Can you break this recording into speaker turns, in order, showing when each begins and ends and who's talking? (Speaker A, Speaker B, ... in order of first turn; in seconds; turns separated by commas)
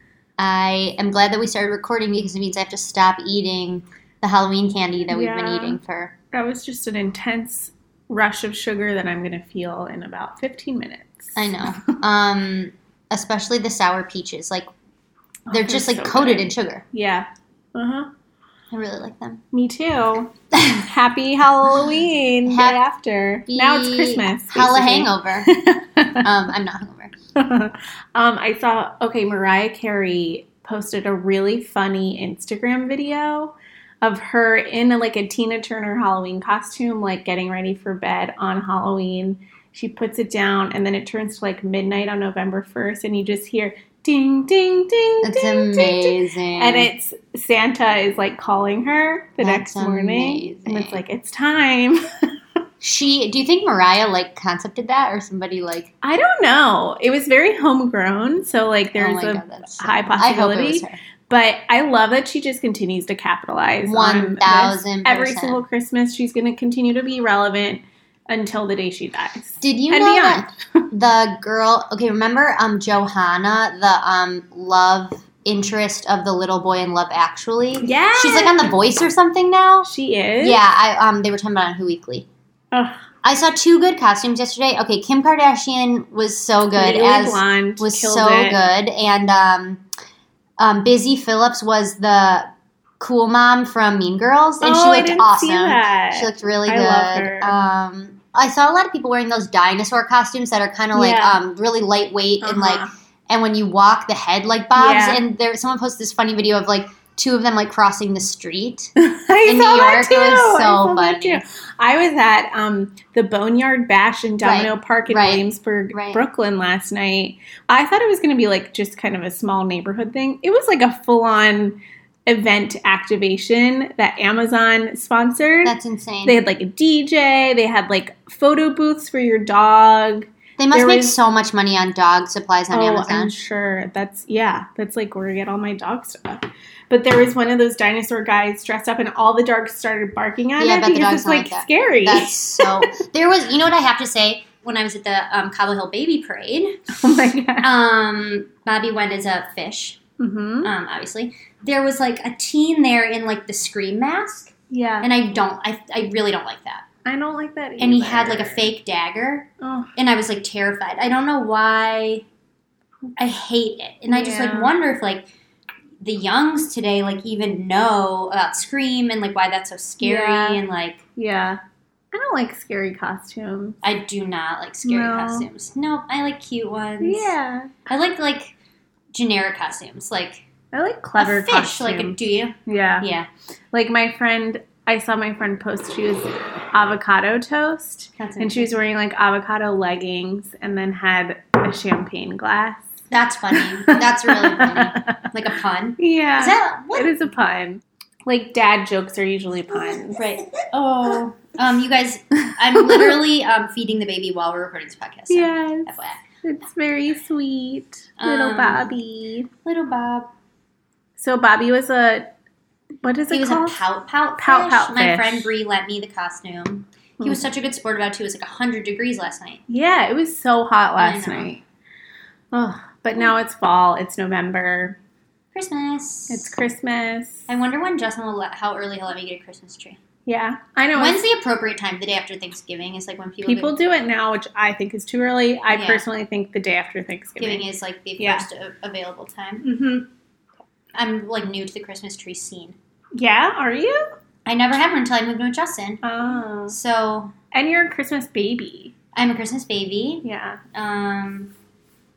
Speaker A: 0.4-6.1, Speaker B: 5.1-5.8, Speaker B: 6.3-11.8, Speaker A: 11.4-14.7, Speaker B: 15.5-18.1, Speaker A: 15.5-16.8, Speaker A: 18.7-19.4, Speaker B: 19.5-26.3, Speaker A: 22.4-22.8, Speaker A: 23.5-25.5, Speaker A: 26.2-27.1, Speaker B: 27.3-52.3, Speaker A: 45.2-46.9, Speaker A: 49.4-51.0, Speaker A: 52.8-55.9, Speaker B: 56.0-70.9, Speaker A: 59.0-61.0, Speaker A: 63.9-65.6, Speaker A: 69.6-79.9, Speaker B: 77.8-78.7, Speaker B: 79.8-80.6, Speaker A: 80.4-82.3, Speaker B: 82.7-83.1, Speaker A: 83.2-89.8, Speaker B: 86.8-88.7, Speaker A: 90.6-111.4, Speaker B: 94.6-97.5, Speaker B: 100.9-101.4, Speaker B: 102.4-102.9, Speaker B: 104.8-105.2, Speaker B: 109.0-125.7, Speaker A: 114.4-116.2, Speaker A: 125.6-126.4, Speaker B: 126.2-131.2, Speaker A: 130.6-133.3, Speaker B: 132.7-142.9, Speaker A: 140.6-147.0, Speaker B: 146.9-147.7, Speaker A: 147.6-150.0, Speaker B: 150.2-150.7, Speaker A: 150.6-156.8, Speaker B: 154.7-155.1, Speaker B: 157.1-158.7, Speaker A: 157.8-162.2, Speaker B: 159.6-159.9, Speaker A: 163.2-165.3, Speaker B: 164.1-164.7, Speaker A: 166.0-171.0, Speaker B: 170.0-170.6, Speaker B: 171.2-171.6, Speaker B: 172.1-173.8, Speaker A: 173.8-177.3, Speaker B: 174.8-175.5, Speaker B: 177.0-177.8, Speaker A: 177.9-178.6, Speaker A: 179.1-180.5, Speaker B: 180.7-183.1, Speaker A: 181.2-183.3, Speaker B: 183.7-192.9, Speaker A: 188.2-188.8, Speaker A: 193.1-197.2, Speaker B: 193.5-195.2, Speaker B: 196.0-200.4, Speaker A: 200.2-206.2, Speaker B: 202.8-203.1, Speaker B: 205.3-209.5, Speaker A: 208.2-208.9, Speaker A: 209.6-210.3, Speaker B: 211.2-212.3, Speaker B: 213.0-213.8, Speaker A: 213.3-219.6, Speaker B: 214.4-215.5, Speaker B: 219.7-221.6, Speaker A: 221.0-221.6, Speaker B: 222.5-225.0, Speaker A: 225.5-226.6, Speaker B: 226.3-227.5, Speaker A: 227.5-230.0, Speaker B: 230.2-231.2, Speaker A: 230.9-233.7, Speaker B: 233.4-237.7, Speaker A: 235.7-236.0, Speaker A: 237.4-239.7, Speaker B: 238.2-238.5, Speaker B: 239.6-240.1, Speaker A: 240.9-242.8, Speaker B: 243.2-244.1, Speaker A: 244.5-246.0, Speaker B: 246.0-246.8, Speaker A: 246.7-247.3, Speaker B: 247.5-248.9, Speaker A: 249.1-251.5, Speaker B: 250.2-250.6